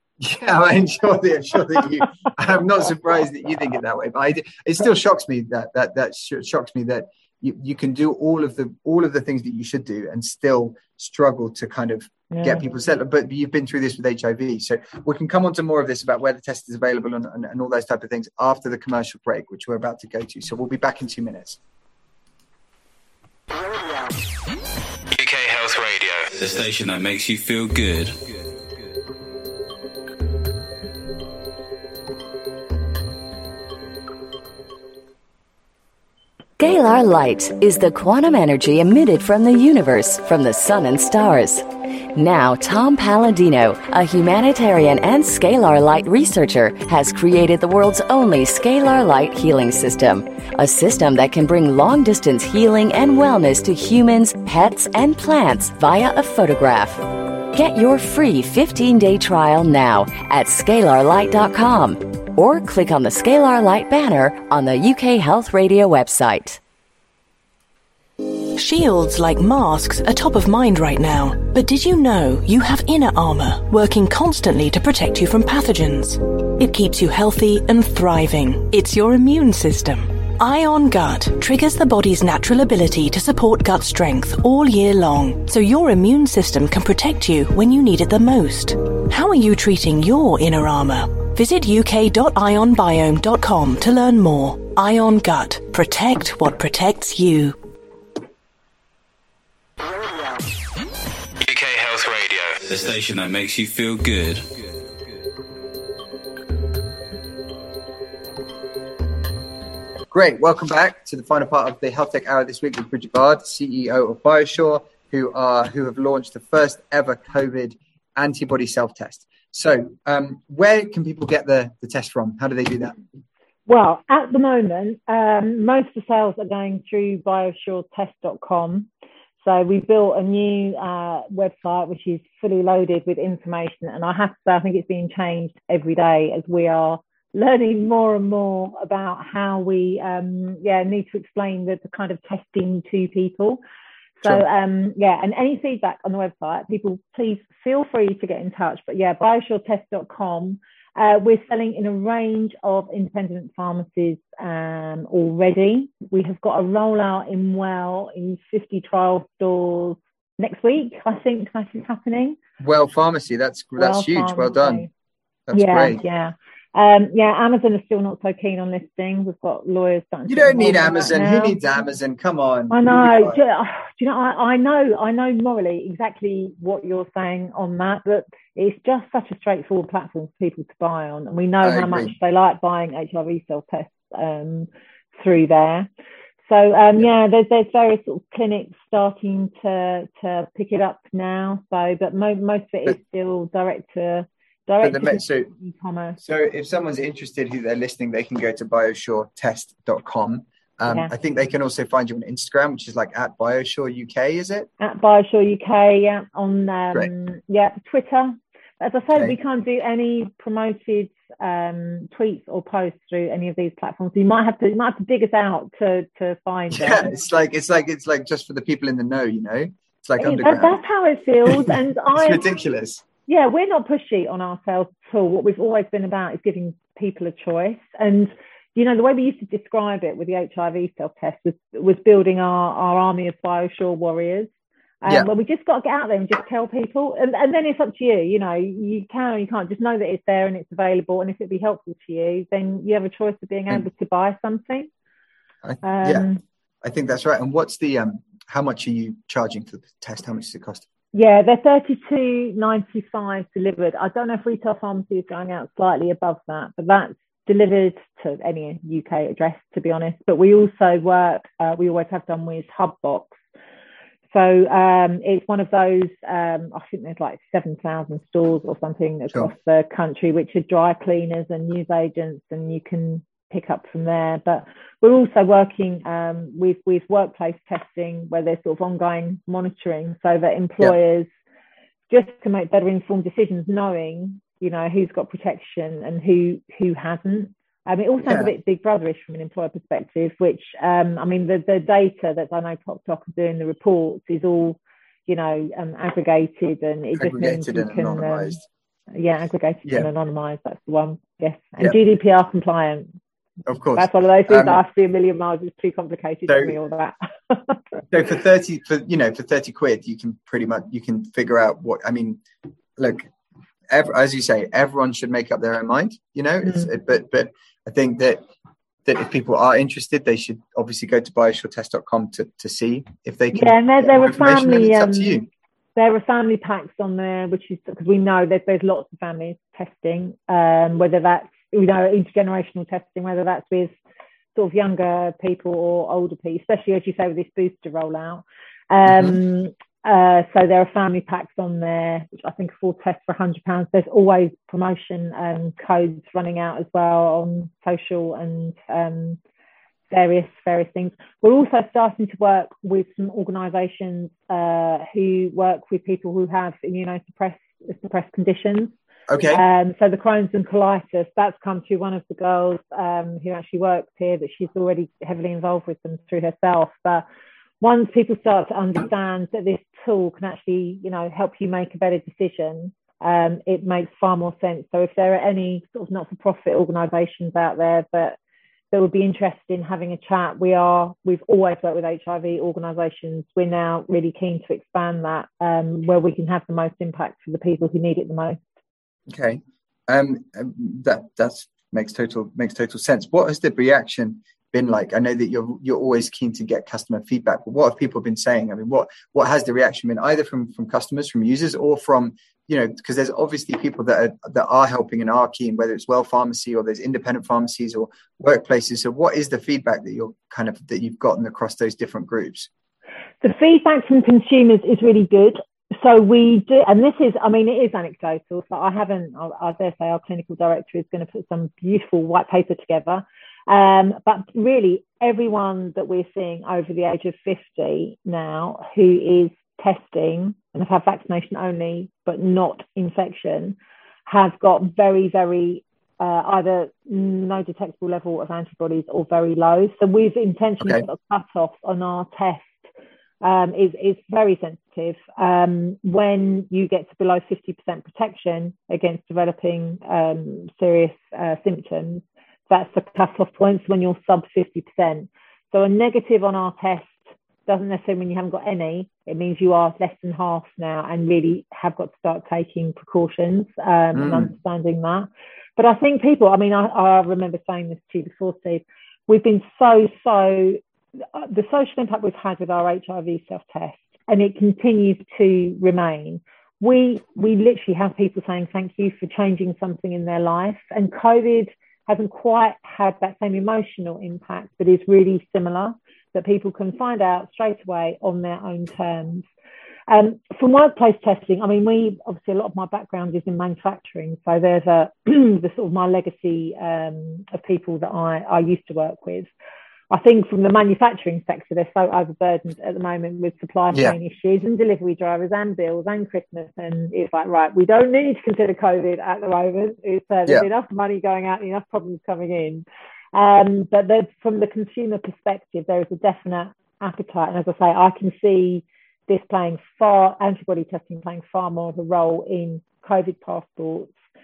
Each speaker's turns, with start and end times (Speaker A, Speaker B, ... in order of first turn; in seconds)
Speaker A: 0.2-21.6, 110.1-123.0, 162.6-164.9, 165.5-166.0, 170.3-173.4, 181.6-182.1, 194.8-195.5, 196.2-204.7, 216.7-220.8, 221.5-223.0, 245.6-246.3, 246.8-250.9, 288.3-288.5, 297.2-298.6, 299.9-300.1, 303.7-304.8, 306.5-306.8, 308.1-312.4, 313.0-313.3, 313.9-318.4, 319.1-325.5, 339.1-339.4, 359.3-359.6, 389.3-412.7, 464.1-464.5
Speaker B: 12.3-12.6, 123.7-128.9, 129.4-143.6, 144.2-162.4, 163.8-164.9, 165.5-171.6, 172.7-185.9, 186.5-196.2, 200.9-201.1, 204.8-217.1, 220.2-222.4, 223.3-234.5, 235.0-244.9, 245.8-246.4, 251.1-263.4, 264.3-281.3, 282.1-298.6, 299.1-303.1, 304.0-308.0, 323.5-325.4, 326.0-333.9, 334.6-349.4, 350.1-358.9, 359.5-367.2, 367.8-378.4, 378.9-388.6, 413.4-433.8, 434.3-442.8, 443.4-470.8, 471.3-489.4, 490.1-499.5, 500.1-524.1
Speaker C: 25.1-28.2, 101.4-104.6
Speaker D: 36.6-66.6
Speaker E: 68.5-97.6